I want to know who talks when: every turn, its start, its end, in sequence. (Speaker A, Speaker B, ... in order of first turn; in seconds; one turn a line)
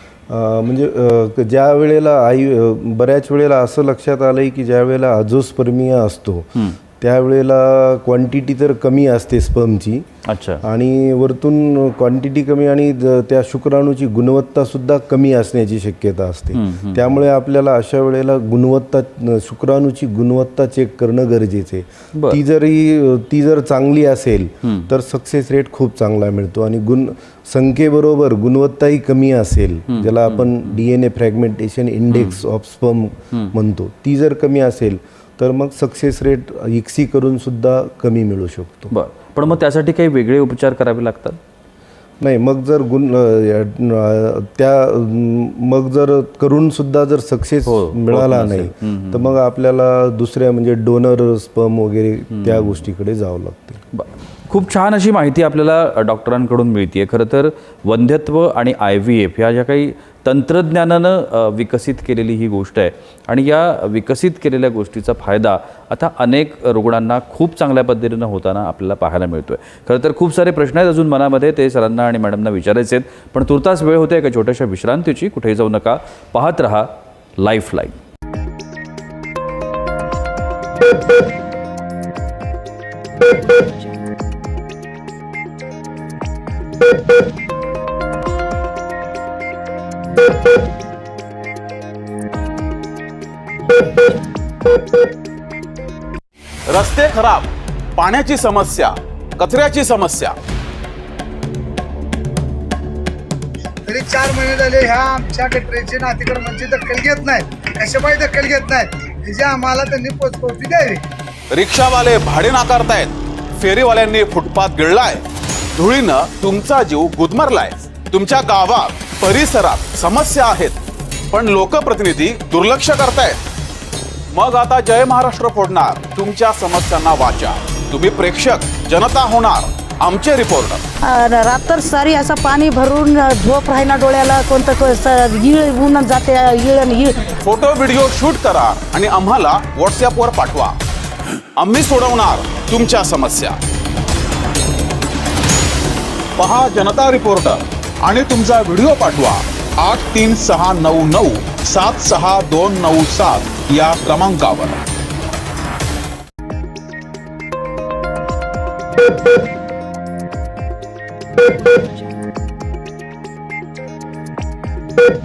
Speaker A: 0.3-10.1
Speaker B: 10.3-10.6
Speaker A: 10.6-38.9
Speaker B: 16.5-17.2
Speaker B: 22.1-22.4
Speaker B: 24.6-24.9
Speaker B: 29.9-30.8
Speaker B: 32.1-32.4
Speaker B: 38.9-41.4
Speaker A: 42.2-53.8
Speaker B: 47.7-49.4
Speaker B: 52.3-52.8
Speaker B: 53.9-78.0
Speaker C: 96.7-100.4
Speaker D: 103.8-111.0
Speaker C: 111.5-115.2
Speaker C: 115.8-120.8
Speaker C: 121.3-123.4
Speaker C: 124.3-130.9
Speaker E: 131.0-137.4
Speaker C: 137.4-140.8
Speaker C: 141.6-143.6
Speaker C: 146.4-154.8